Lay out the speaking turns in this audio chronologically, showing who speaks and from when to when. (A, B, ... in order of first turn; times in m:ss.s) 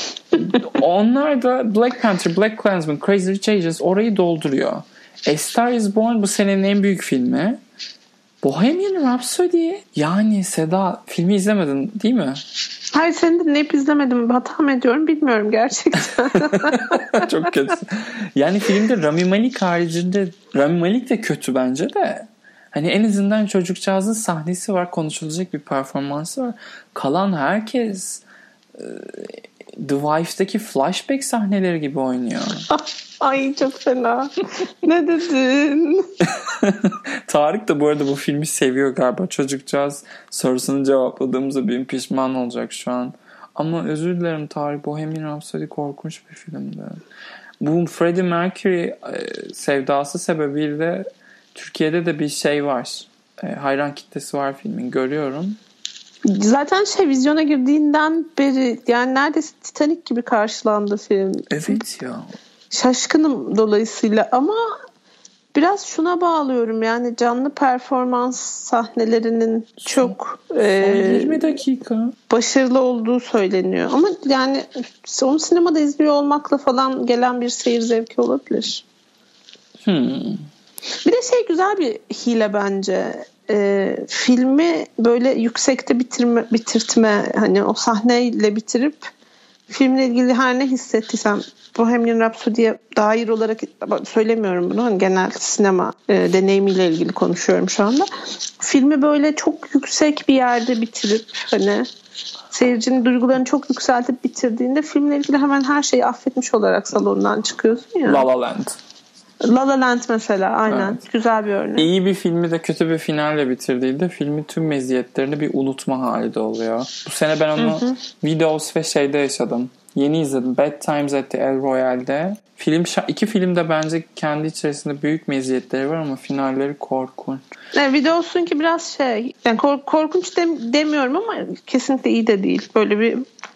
0:00.3-0:07.6 A
0:08.4-0:12.4 A
0:12.9-0:17.3 B
0:16.2-0:28.2 A
0:28.8-0:32.6 A
0:32.7-0:36.1 B
0:36.2-0:47.0 A
0:47.6-0:55.6 A
0:56.2-1:01.8 B
1:01.5-1:02.3 A
1:02.7-1:04.6 B
1:05.5-1:11.5 B
1:09.8-1:12.2 A
1:12.3-1:18.8 B
1:19.8-1:20.4 A
1:21.0-1:29.1 B
1:29.7-1:38.1 B
1:38.6-1:41.9 B
1:42.5-1:48.2 B
1:48.0-1:48.8 A
1:49.4-1:51.9 B
1:50.7-1:51.0 A
1:51.8-2:07.4 A
1:57.6-1:58.0 B
2:07.7-2:13.2 B